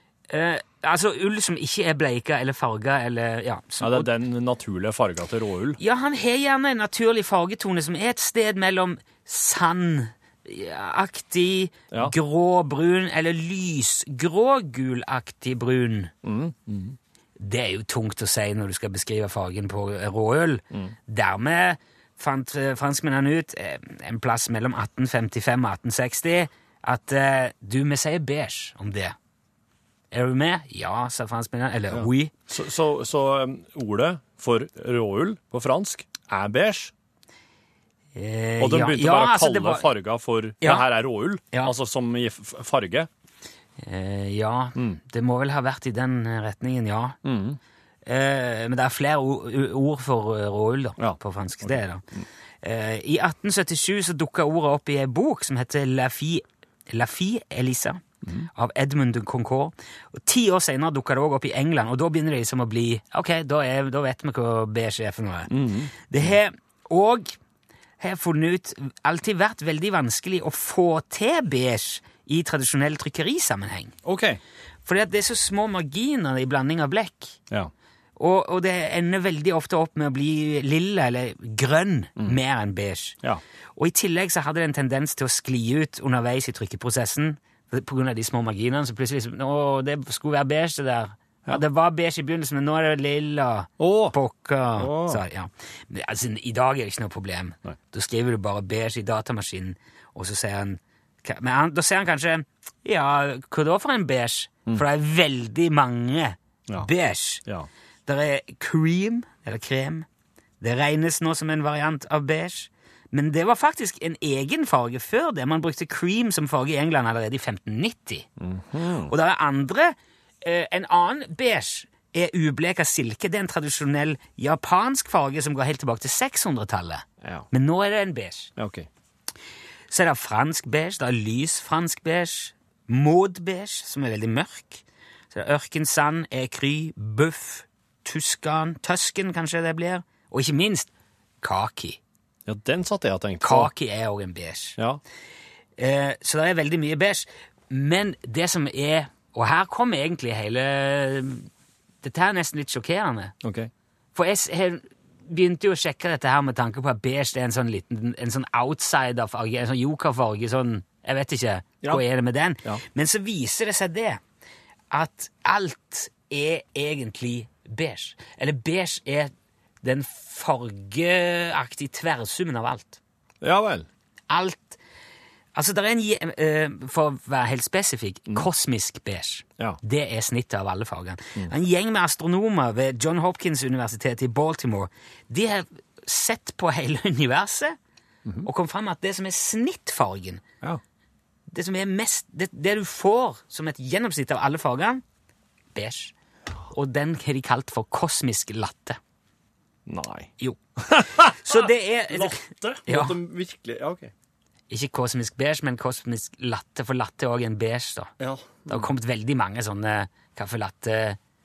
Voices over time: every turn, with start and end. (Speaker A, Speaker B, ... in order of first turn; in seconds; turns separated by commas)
Speaker A: 0.3-4.1, Speaker B: 3.8-5.8, Speaker A: 5.8-16.1, Speaker B: 16.2-17.0, Speaker A: 17.4-29.2, Speaker A: 30.1-32.3, Speaker B: 31.9-36.9, Speaker A: 38.1-39.9, Speaker B: 38.6-43.1, Speaker A: 40.6-40.9, Speaker A: 43.8-47.2, Speaker B: 44.8-45.0, Speaker B: 47.2-47.6, Speaker A: 48.1-52.0, Speaker B: 51.0-52.3, Speaker A: 52.6-58.0, Speaker B: 58.2-58.5, Speaker A: 58.5-67.3, Speaker B: 65.5-66.3, Speaker A: 68.0-74.0, Speaker B: 74.0-74.4, Speaker A: 74.8-77.4, Speaker A: 78.2-83.2, Speaker A: 83.8-107.5, Speaker B: 93.8-94.2, Speaker B: 94.8-95.2, Speaker A: 108.0-110.0, Speaker A: 110.6-118.3, Speaker B: 118.4-119.1, Speaker A: 119.1-128.5, Speaker B: 127.2-127.5, Speaker B: 128.6-128.9, Speaker A: 129.9-140.9, Speaker A: 141.4-142.0, Speaker B: 142.5-143.7, Speaker A: 143.4-144.8, Speaker A: 145.8-151.5, Speaker A: 152.0-153.3, Speaker B: 153.4-153.7, Speaker A: 154.1-164.2, Speaker A: 164.9-169.3, Speaker A: 169.8-173.0, Speaker B: 173.4-173.9, Speaker A: 174.3-174.8, Speaker A: 175.5-187.8, Speaker A: 188.4-190.4, Speaker A: 191.5-195.0, Speaker A: 195.7-196.1, Speaker A: 196.7-199.0, Speaker B: 199.8-204.1, Speaker A: 200.4-203.2, Speaker A: 204.7-208.1, Speaker B: 208.2-208.9, Speaker A: 208.7-211.2